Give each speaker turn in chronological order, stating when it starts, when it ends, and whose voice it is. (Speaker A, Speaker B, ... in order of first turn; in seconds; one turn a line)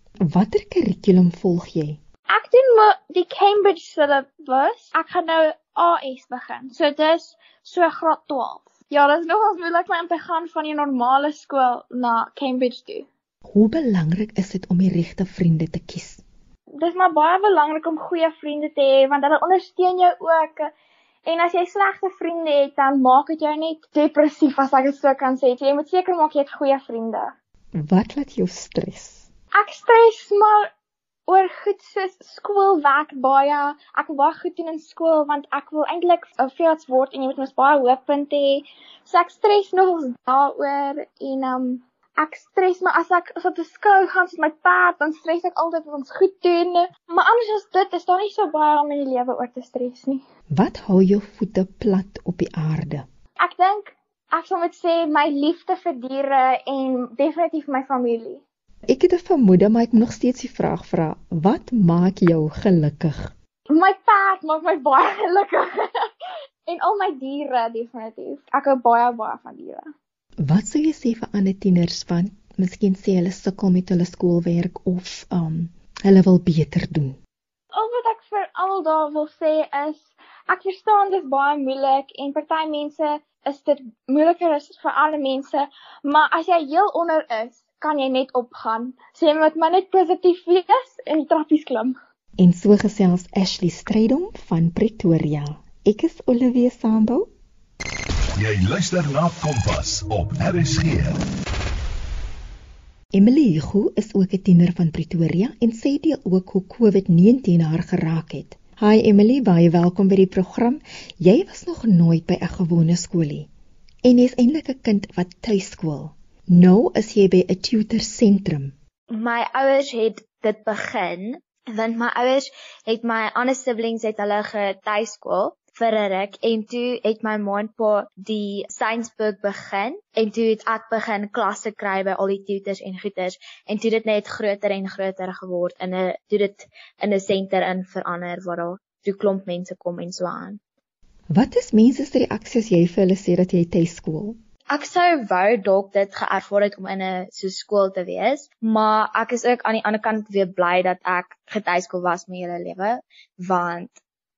Speaker A: 0.2-2.0
Speaker B: 2.3-13.1
Speaker A: 13.5-16.2
Speaker B: 16.8-20.7
Speaker B: 21.3-27.3
Speaker A: 27.8-29.3
Speaker B: 29.6-30.7
Speaker B: 31.3-50.2
Speaker A: 50.5-53.1
Speaker B: 53.4-58.4
Speaker A: 58.9-63.3
Speaker B: 63.7-66.1
Speaker B: 66.7-69.9
Speaker A: 70.4-77.2
Speaker B: 77.7-92.0
Speaker A: 92.4-97.3
Speaker C: 98.4-101.2
Speaker A: 103.1-113.5
Speaker A: 114.0-118.7
Speaker D: 119.1-140.6
Speaker A: 141.3-144.4
Speaker D: 144.7-153.9